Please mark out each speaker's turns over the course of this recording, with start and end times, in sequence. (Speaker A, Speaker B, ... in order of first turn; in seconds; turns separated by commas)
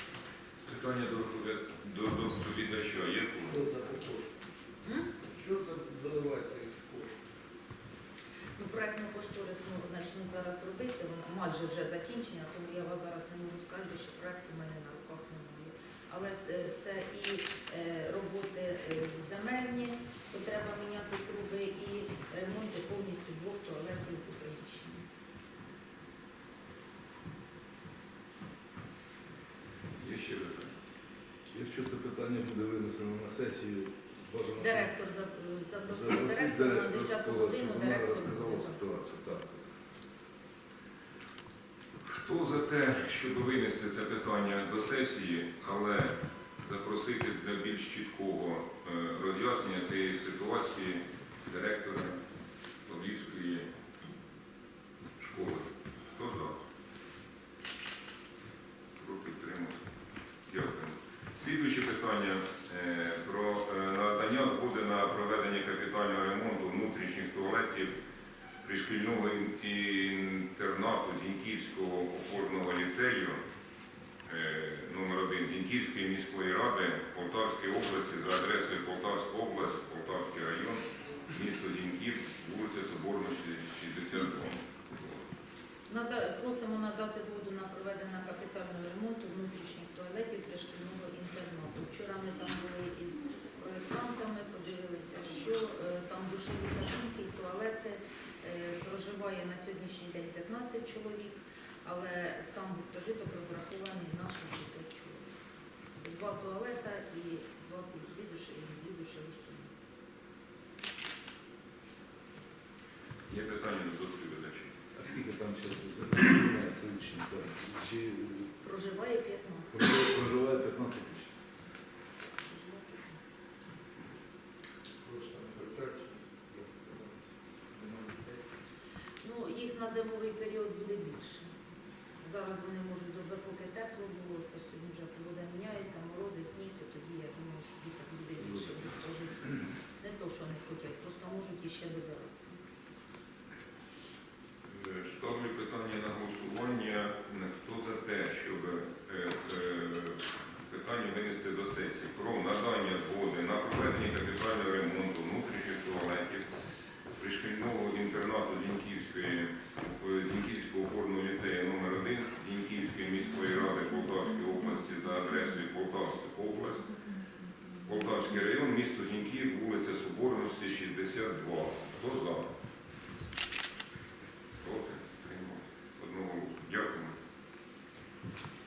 Speaker A: 0.7-3.7, Speaker B: 3.5-4.3, Speaker C: 4.8-5.1, Speaker B: 5.2-7.2, Speaker C: 8.6-25.0, Speaker A: 30.0-30.7, Speaker D: 31.5-34.9, Speaker C: 34.6-38.8, Speaker D: 35.9-39.6, Speaker A: 42.0-52.2, Speaker A: 52.9-53.7, Speaker A: 55.2-56.6, Speaker A: 59.0-59.8, Speaker A: 60.5-67.9, Speaker A: 68.6-73.4, Speaker A: 74.3-85.2, Speaker C: 85.9-105.3, Speaker C: 106.0-109.7, Speaker A: 113.3-114.7, Speaker D: 114.9-118.5, Speaker C: 118.6-119.8, Speaker D: 119.7-121.3, Speaker C: 122.4-123.2, Speaker B: 125.0-127.2, Speaker B: 127.7-128.4, Speaker C: 129.2-131.5, Speaker C: 132.2-142.6, Speaker A: 144.7-156.4, Speaker A: 157.2-166.9, Speaker A: 167.9-172.5, Speaker A: 174.6-177.2